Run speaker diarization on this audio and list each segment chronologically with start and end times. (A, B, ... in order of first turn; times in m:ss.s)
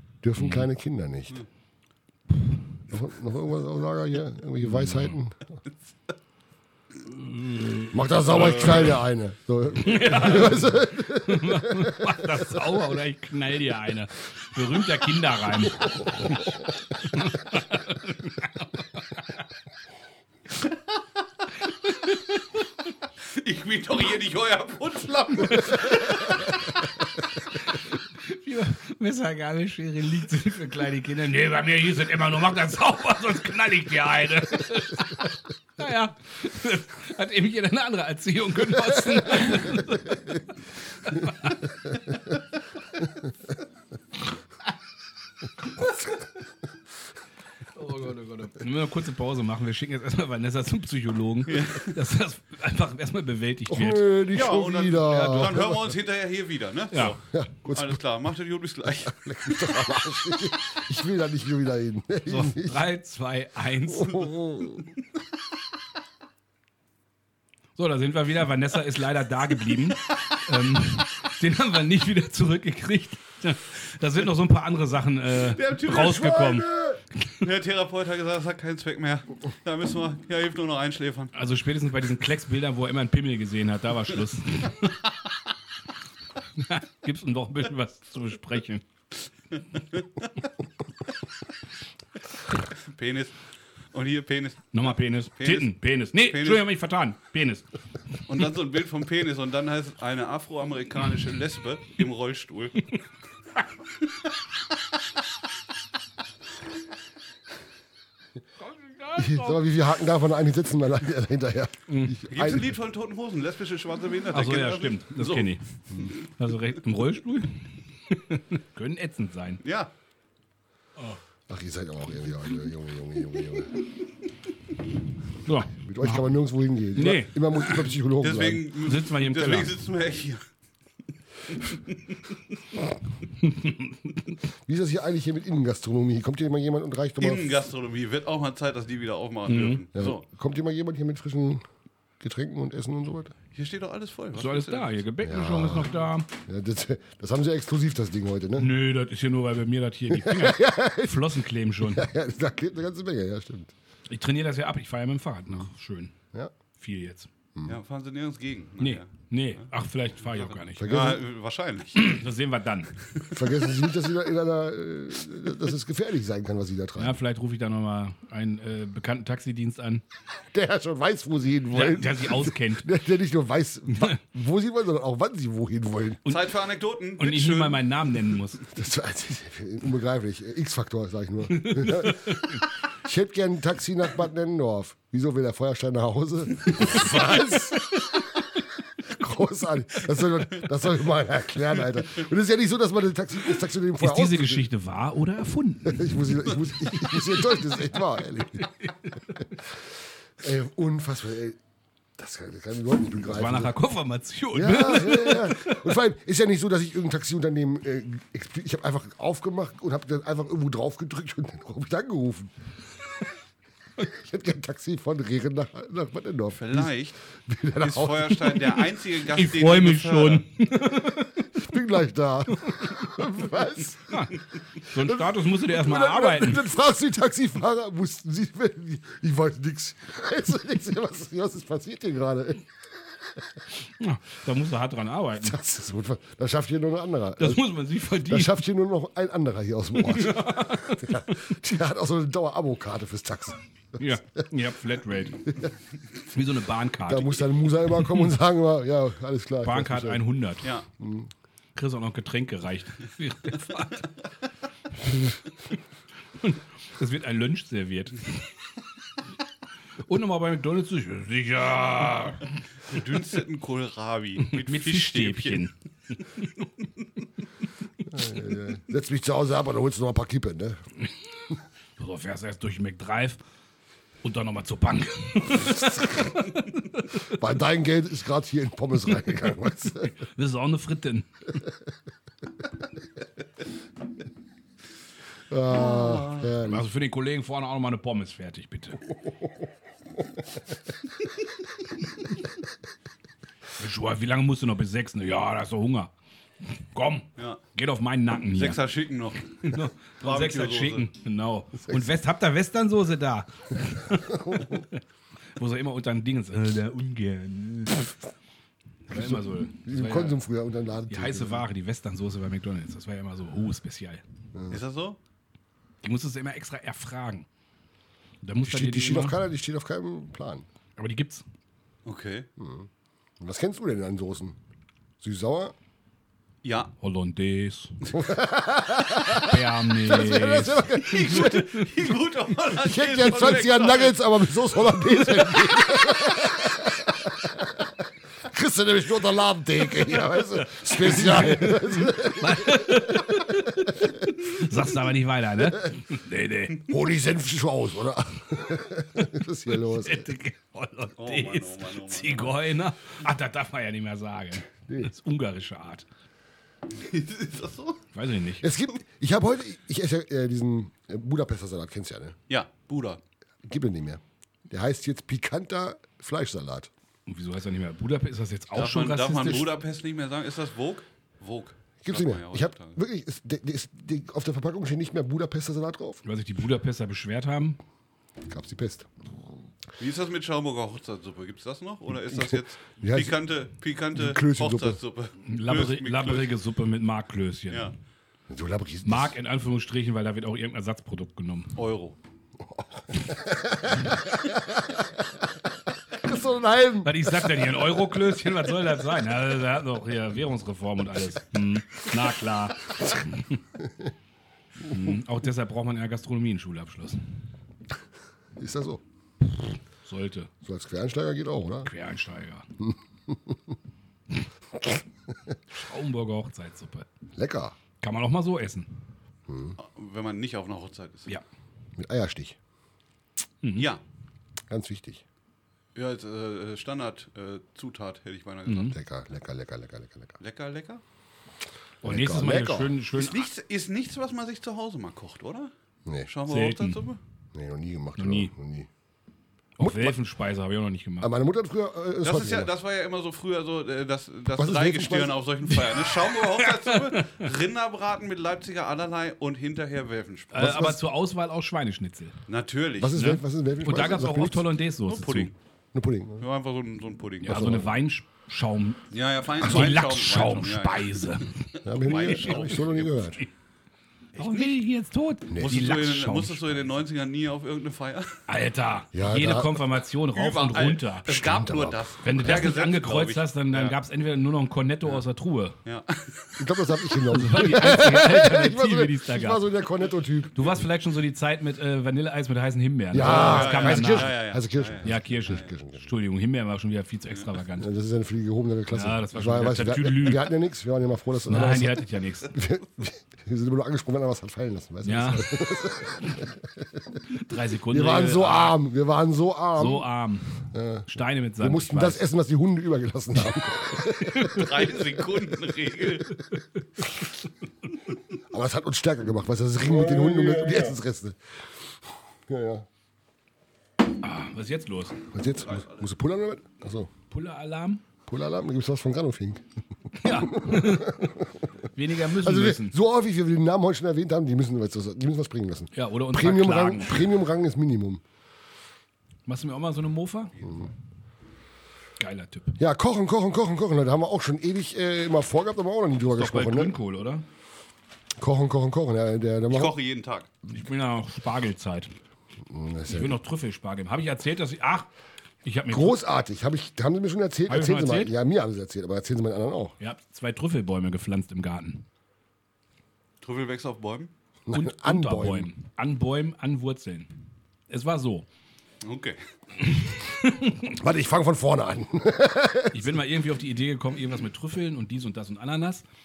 0:00.2-0:01.4 A
0:00.4-0:00.7 B
0:02.9-0:05.4 A
0:04.6-0:05.2 B
0:07.0-0:08.0 B
0:07.9-0:12.6 A
0:08.3-0:09.0 C
0:09.8-0:19.4 B
0:15.9-0:16.4 A
0:21.9-0:22.3 B
0:23.2-0:26.5 C
0:28.2-0:42.2 B
0:47.7-0:54.2 B
0:51.4-0:52.0 C
0:53.7-0:56.0 A
0:54.3-0:59.7 C
0:55.1-0:55.5 B
0:57.3-0:58.0 A
0:59.0-1:02.8 A
1:02.3-1:04.3 B
1:03.9-1:04.9 A
1:07.8-1:17.4 B
1:15.4-1:16.6 C
1:15.9-1:17.0 A
1:17.4-1:21.3 C
1:21.3-1:25.0 B
1:26.6-1:28.8 B
1:32.7-1:33.4 C
1:33.9-1:36.6 C
1:34.7-1:37.7 B
1:38.3-1:43.0 C
1:48.6-1:49.6 B
1:49.2-1:52.7 A
1:51.9-1:52.2 B
1:52.3-1:55.6 C
1:54.3-1:55.6 B
1:56.3-1:59.6 B
1:59.6-1:59.9 C
2:01.5-2:03.7 A
2:05.4-2:06.3 B
2:05.8-2:08.7 A
2:06.9-2:07.6 B
2:08.2-2:10.4 C
2:08.8-2:09.7 B
2:11.5-2:12.1 C
2:13.4-2:14.3 B
2:14.6-2:17.6 A
2:17.2-2:20.2 C
2:19.5-2:19.8 B
2:19.9-2:21.6 A
2:22.2-2:23.3 A
2:23.5-2:25.0 C
2:24.4-2:26.3 B
2:25.2-2:28.7 A
2:28.6-2:32.1 B
2:30.1-2:33.7 A
2:34.1-2:36.1 B
2:36.8-2:37.3 B
2:37.6-2:37.8 A
2:37.6-2:39.6 C
2:38.8-2:41.0 B
2:40.3-2:42.2 C
2:40.8-2:41.2 A
2:41.9-2:42.9 B
2:43.3-2:47.2 A
2:47.0-2:50.0 B
2:50.5-2:56.3 A
2:51.7-2:52.9 B
2:53.9-2:54.2 B
2:56.3-2:57.9 C
2:57.2-2:58.6 B
2:58.7-3:08.3 A
3:01.5-3:02.7 B
3:09.0-3:14.7 A
3:14.0-3:16.4 B
3:15.8-3:18.7 A
3:18.6-3:19.4 B
3:19.6-3:21.6 A
3:22.2-3:23.8 A
3:23.3-3:25.9 B
3:24.5-3:32.5 A
3:34.0-3:38.8 A
3:36.5-3:37.2 C
3:37.8-3:40.4 C
3:39.3-3:41.6 B
3:41.6-3:44.3 A
3:42.6-3:43.1 B
3:44.1-3:46.6 B
3:45.0-3:52.7 A
3:54.0-3:55.6 B
3:55.4-4:04.2 A
3:57.4-3:58.6 B
4:00.0-4:01.6 B
4:04.0-4:05.6 B
4:05.4-4:05.7 A
4:06.3-4:07.5 B
4:07.0-4:10.2 A
4:08.0-4:08.3 B
4:09.6-4:10.7 B
4:11.0-4:11.3 A
4:11.7-4:14.1 B
4:15.0-4:15.4 B
4:16.4-4:18.4 B
4:20.0-4:22.5 B
4:22.9-4:25.6 C
4:24.4-4:26.4 B
4:28.1-4:30.8 A
4:32.0-4:33.4 B
4:34.2-4:37.3 B
4:35.6-4:36.3 A
4:37.3-4:40.1 A
4:40.2-4:41.4 B
4:45.5-4:46.9 A
4:45.8-4:46.5 C
4:46.6-4:49.0 B
4:53.8-4:56.1 B
4:56.7-4:58.8 B
4:58.5-4:59.7 C
4:59.6-5:05.0 B
5:00.2-5:01.1 C
5:01.9-5:02.1 A
5:04.1-5:04.8 A
5:05.6-5:08.1 B
5:09.1-5:10.4 B
5:09.1-5:11.6 A
5:11.1-5:14.2 B
5:14.5-5:14.8 A
5:14.7-5:15.2 C
5:16.0-5:17.5 B
5:18.4-5:19.4 B
5:18.6-5:20.6 A
5:21.0-5:21.4 B
5:22.0-5:22.5 C
5:22.6-5:22.9 A
5:23.4-5:24.6 A
5:25.2-5:25.7 A
5:26.6-5:26.9 C
5:27.0-5:28.0 B
5:28.1-5:31.8 A
5:29.3-5:31.9 B
5:31.0-5:34.2 C
5:32.7-5:44.1 A
5:35.4-5:36.0 C
5:40.6-5:46.9 B
5:46.8-5:50.3 A
5:49.7-5:56.0 B
5:51.2-5:52.6 C
5:56.9-5:58.0 C
5:58.1-5:58.7 B
5:58.6-6:02.4 A
6:02.5-6:03.2 C
6:03.6-6:06.9 A
6:07.3-6:09.7 B
6:08.7-6:13.0 C
6:12.0-6:16.2 A
6:16.2-6:17.8 B
6:18.4-6:19.1 A
6:20.0-6:26.5 C
6:22.3-6:23.4 A
6:24.1-6:25.0 A
6:25.4-6:27.9 B
6:28.5-6:29.4 A
6:29.0-6:31.8 B
6:31.8-6:32.2 C
6:32.6-6:35.5 A
6:36.1-6:38.1 A
6:37.0-6:43.6 B
6:43.8-6:44.1 A
6:44.8-6:47.2 B
6:48.6-6:49.0 A
6:50.0-6:50.5 B
6:50.6-6:51.9 A
6:51.8-6:52.7 B
6:52.8-6:53.7 A
6:54.8-6:55.6 A
6:55.7-6:57.1 B
6:57.4-6:57.8 A
6:58.0-6:59.0 B
6:59.5-6:59.8 A
6:59.8-7:01.3 C
7:02.0-7:02.6 A
7:03.6-7:03.9 B
7:03.8-7:04.0 C
7:04.7-7:05.2 A
7:05.9-7:09.0 C
7:08.6-7:09.0 B
7:08.9-7:10.4 A
7:10.4-7:11.0 C
7:12.0-7:13.0 A
7:12.0-7:13.4 B
7:13.1-7:15.7 C
7:16.2-7:17.2 C
7:16.4-7:17.0 B
7:17.5-7:18.9 A
7:18.2-7:18.5 B
7:19.8-7:21.3 B
7:19.8-7:20.2 A
7:21.2-7:22.7 A
7:22.2-7:30.8 C
7:24.6-7:25.4 A
7:25.7-7:27.5 B
7:30.5-7:32.4 B
7:30.6-7:31.0 A
7:32.5-7:33.2 C
7:33.0-7:34.7 A
7:33.2-7:35.5 B
7:35.0-7:35.5 C
7:35.9-7:36.4 A
7:36.4-7:37.8 C
7:37.4-7:39.0 B
7:37.4-7:37.9 A
7:39.1-7:43.4 C
7:39.6-7:41.6 B
7:39.6-7:39.9 A
7:41.8-7:43.4 A
7:44.4-7:44.8 C
7:44.4-7:46.8 B
7:45.5-7:45.8 A
7:45.6-7:48.4 C
7:48.5-7:51.3 B
7:49.1-7:49.8 A
7:50.3-7:54.0 C
7:51.3-7:52.0 A
7:52.2-7:55.8 B
7:55.8-7:56.6 C
7:56.6-8:00.8 A
7:57.3-7:59.7 B
8:00.6-8:04.4 B
8:03.1-8:06.1 A
8:03.2-8:05.6 C
8:05.0-8:07.9 B
8:07.8-8:17.0 A
8:08.9-8:10.5 B
8:11.4-8:12.6 B
8:15.0-8:15.5 B
8:17.3-8:18.8 B
8:17.9-8:20.1 A
8:19.7-8:22.2 B
8:20.7-8:25.1 A
8:24.2-8:24.7 B
8:24.4-8:26.4 C
8:26.4-8:27.0 B
8:28.5-8:31.4 A
8:32.5-8:32.9 A
8:34.2-8:35.2 B
8:35.3-8:37.1 A
8:35.6-8:36.0 C
8:37.3-8:38.0 B
8:38.3-8:39.6 A
8:40.2-8:41.3 B
8:40.2-8:41.7 A
8:41.9-8:42.9 B
8:42.3-8:48.2 A
8:45.9-8:47.4 B
8:49.4-8:50.5 B
8:50.6-8:50.9 A
8:52.2-8:52.8 B
8:52.8-8:56.9 A
8:56.3-8:57.4 B
8:58.4-9:00.0 A
8:59.7-9:00.5 C
9:00.7-9:02.1 B
9:02.6-9:03.4 A
9:03.1-9:05.1 B
9:05.6-9:06.2 B
9:05.9-9:09.9 A
9:07.7-9:08.3 B
9:10.0-9:12.0 B
9:13.4-9:14.3 C
9:14.7-9:15.7 A
9:14.7-9:17.3 B
9:17.9-9:18.4 B
9:19.0-9:19.4 C
9:19.8-9:21.0 B
9:20.9-9:23.1 A
9:22.9-9:26.0 B